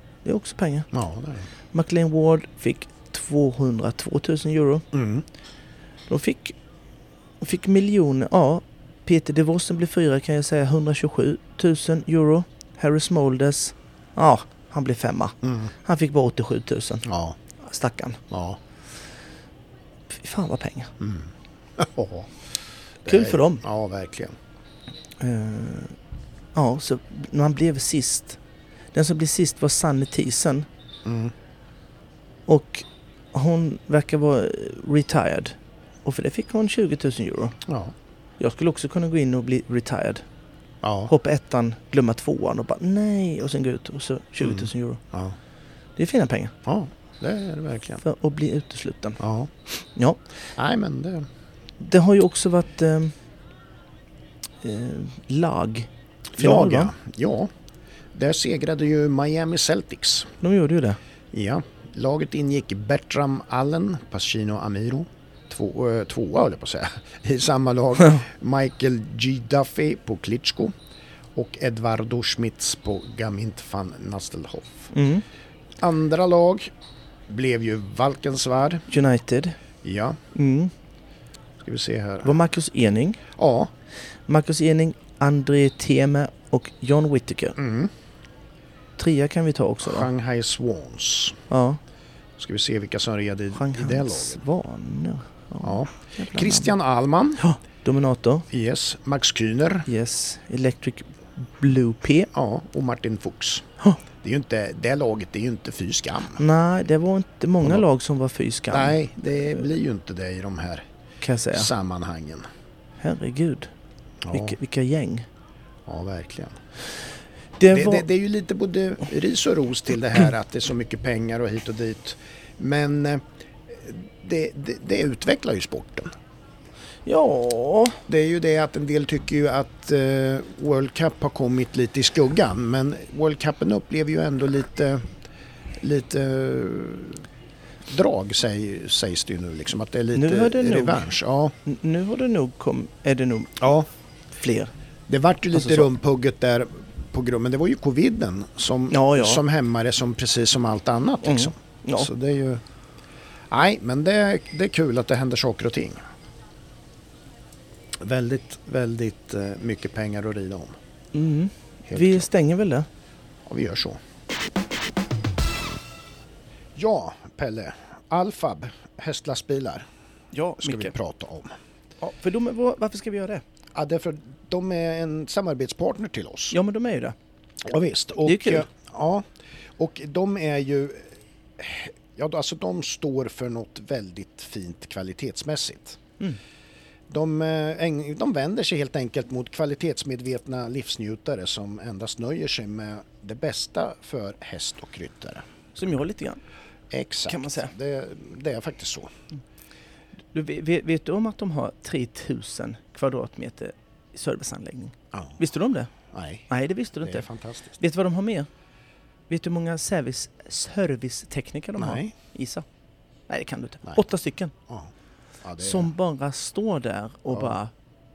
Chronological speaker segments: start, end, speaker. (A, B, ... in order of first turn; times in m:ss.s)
0:00.2-0:00.9 A
0:00.9-0:01.5 B
0:01.7-0:04.9 A
0:04.9-0:05.2 B
0:06.1-0:06.6 A
0:07.4-0:17.1 A
0:15.4-0:15.7 B
0:17.0-0:17.4 B
0:17.6-0:18.2 A
0:18.3-0:18.6 B
0:20.1-0:20.9 A
0:21.0-0:22.3 B
0:23.1-0:23.6 A
0:23.1-0:24.3 B
0:25.2-0:26.0 A
0:26.6-0:28.4 A
0:28.9-0:30.7 A
0:31.0-0:31.3 B
0:32.5-0:37.6 A
0:37.7-0:37.9 B
0:38.4-0:40.2 A
0:40.8-0:41.1 B
0:41.1-0:45.0 A
0:44.4-0:45.4 B
0:46.0-0:46.5 A
0:46.6-0:48.0 B
0:48.0-0:49.2 A
0:49.2-0:49.5 B
0:49.9-0:50.2 A
0:50.6-0:51.3 B
0:51.8-0:53.1 A
0:54.6-0:56.9 A
0:56.4-0:57.5 B
0:58.1-1:00.3 B
1:00.4-1:01.0 A
1:01.3-1:10.7 B
1:11.4-1:14.9 B
1:14.9-1:15.2 A
1:15.8-1:16.7 B
1:17.3-1:18.9 B
1:18.9-1:19.6 A
1:19.8-1:20.2 B
1:20.3-1:20.7 A
1:21.6-1:22.4 B
1:22.2-1:23.2 A
1:23.4-1:23.7 B
1:24.3-1:27.6 A
1:27.6-1:27.9 B
1:29.0-1:30.1 A
1:29.8-1:31.4 B
1:31.5-1:31.8 A
1:32.4-1:34.4 B
1:33.6-1:36.7 A
1:35.6-1:37.4 B
1:37.4-1:38.5 A
1:38.5-1:39.9 B
1:39.9-1:42.3 A
1:42.3-1:43.7 B
1:44.2-1:46.4 B
1:46.4-1:49.7 A
1:48.7-1:50.8 B
1:51.2-1:51.7 A
1:51.5-1:52.4 B
1:53.0-1:53.7 A
1:54.2-1:54.6 B
1:54.3-1:55.3 A
1:55.9-1:56.6 B
1:57.6-1:58.1 A
1:57.7-2:06.1 B
2:07.1-2:08.0 A
2:08.1-2:15.1 B
2:15.8-2:17.2 B
2:17.9-2:21.5 B
2:20.2-2:21.0 A
2:21.6-2:23.6 A
2:23.6-2:23.9 B
2:24.4-2:24.7 A
2:25.1-2:32.6 B
2:25.5-2:25.9 A
2:28.9-2:29.4 A
2:31.2-2:32.1 A
2:33.5-2:36.0 B
2:38.0-2:40.8 B
2:41.1-2:42.9 A
2:41.9-2:42.3 B
2:43.5-2:44.0 B
2:46.8-2:49.9 B
2:50.3-2:50.9 A
2:50.6-2:51.5 B
2:52.0-2:53.4 A
2:53.8-2:56.6 B
2:56.5-2:57.2 A
2:57.6-2:59.3 B
2:58.2-2:58.7 A
2:59.8-3:06.0 B
3:07.1-3:15.4 B
3:15.8-3:16.4 A
3:16.9-3:19.1 B
3:17.3-3:17.7 A
3:20.3-3:25.9 A
3:25.1-3:25.4 B
3:26.1-3:26.5 B
3:26.5-3:27.3 A
3:27.0-3:27.8 B
3:27.8-3:28.5 A
3:29.3-3:32.6 A
3:31.8-3:32.1 B
3:33.3-3:34.5 A
3:35.4-3:35.9 B
3:35.6-3:37.7 A
3:37.3-3:37.6 B